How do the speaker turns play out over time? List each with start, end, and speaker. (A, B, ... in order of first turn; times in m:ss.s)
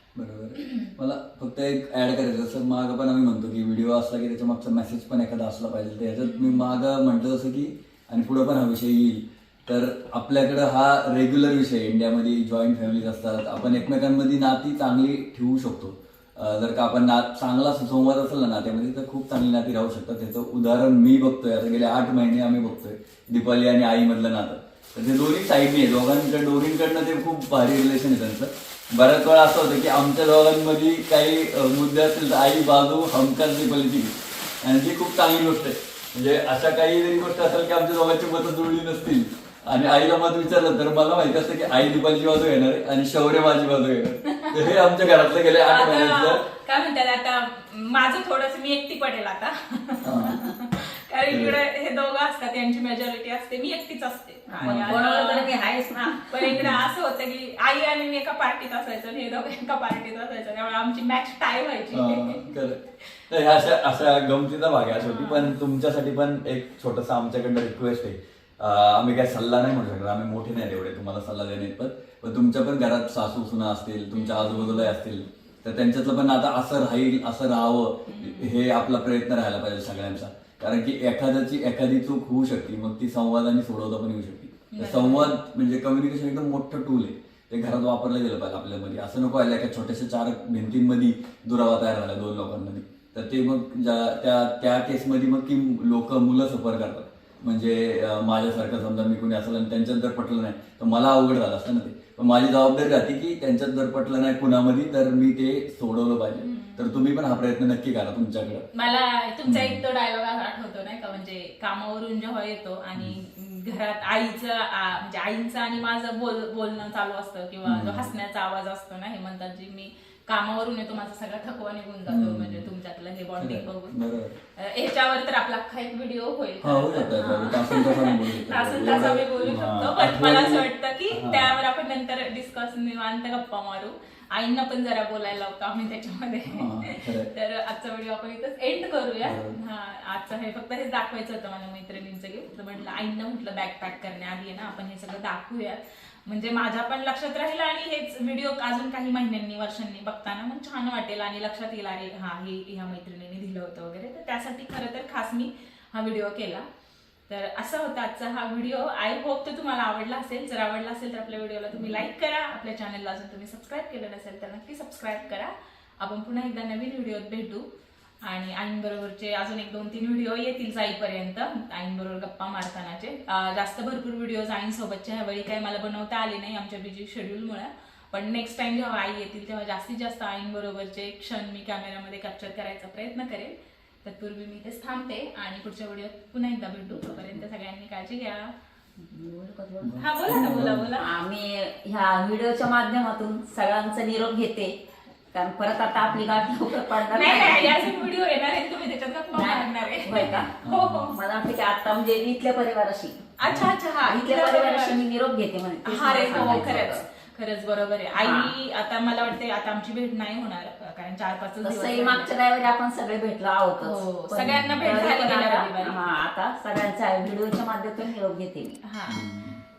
0:00.1-0:46.4 A
0:00.6-0:00.9 B
0:06.2-0:06.7 B
0:44.3-0:44.7 B
0:45.6-1:02.6 B
0:50.0-0:50.4 A
0:51.3-0:51.6 A
0:54.5-0:56.6 C
0:54.6-0:55.0 A
0:56.6-0:56.8 A
1:01.9-1:48.6 A
1:05.0-1:05.5 B
1:14.1-1:14.9 B
1:18.0-1:18.6 B
1:24.7-1:25.3 B
1:46.4-1:47.0 B
1:48.7-2:04.0 B
1:49.4-1:49.8 A
1:57.6-1:58.1 A
2:02.1-2:02.7 A
2:03.4-2:04.4 A
2:04.6-2:36.6 B
2:06.6-2:11.6 A
2:16.4-2:17.3 A
2:19.2-2:19.6 A
2:37.3-2:47.6 B
2:48.2-3:08.5 B
3:06.9-3:07.4 C
3:09.0-3:09.9 C
3:09.8-3:10.9 A
3:10.0-3:11.1 B
3:11.0-3:14.8 C
3:15.3-3:17.9 C
3:16.9-3:21.2 B
3:19.3-3:20.6 C
3:20.6-3:21.1 A
3:21.1-3:23.3 C
3:23.4-3:25.0 B
3:23.4-3:23.7 A
3:24.0-3:27.0 C
3:25.8-3:32.3 B
3:26.3-3:26.9 A
3:28.2-3:28.5 C
3:31.6-3:38.8 C
3:33.8-3:36.0 B
3:34.5-3:34.9 A
3:38.8-3:39.2 B
3:39.1-3:39.6 A